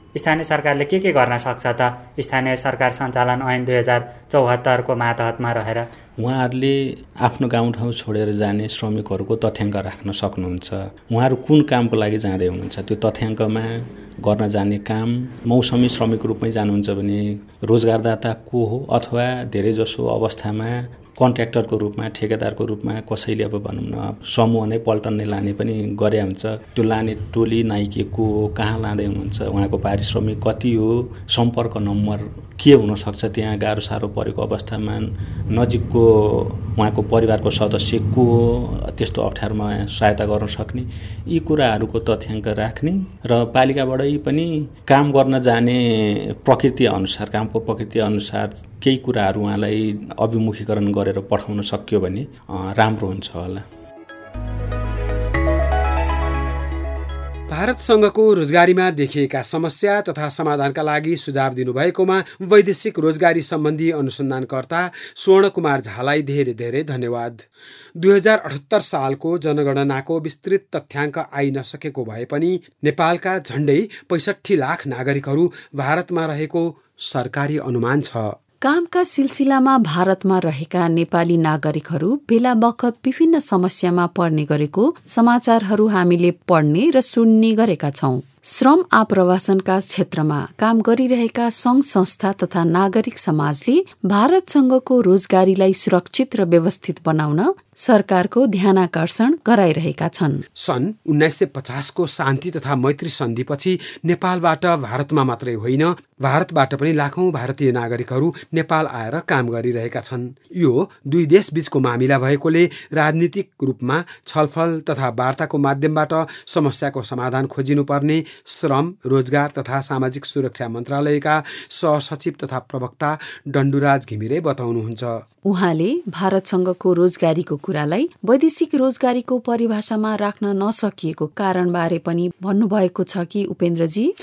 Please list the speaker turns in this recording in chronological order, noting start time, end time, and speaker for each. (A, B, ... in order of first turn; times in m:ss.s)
0:00.2-0:05.8 A
0:06.2-0:53.7 B
0:57.5-1:07.5 C
1:08.0-1:18.4 C
1:18.6-1:40.4 D
1:40.6-2:05.2 C
2:05.5-2:14.1 D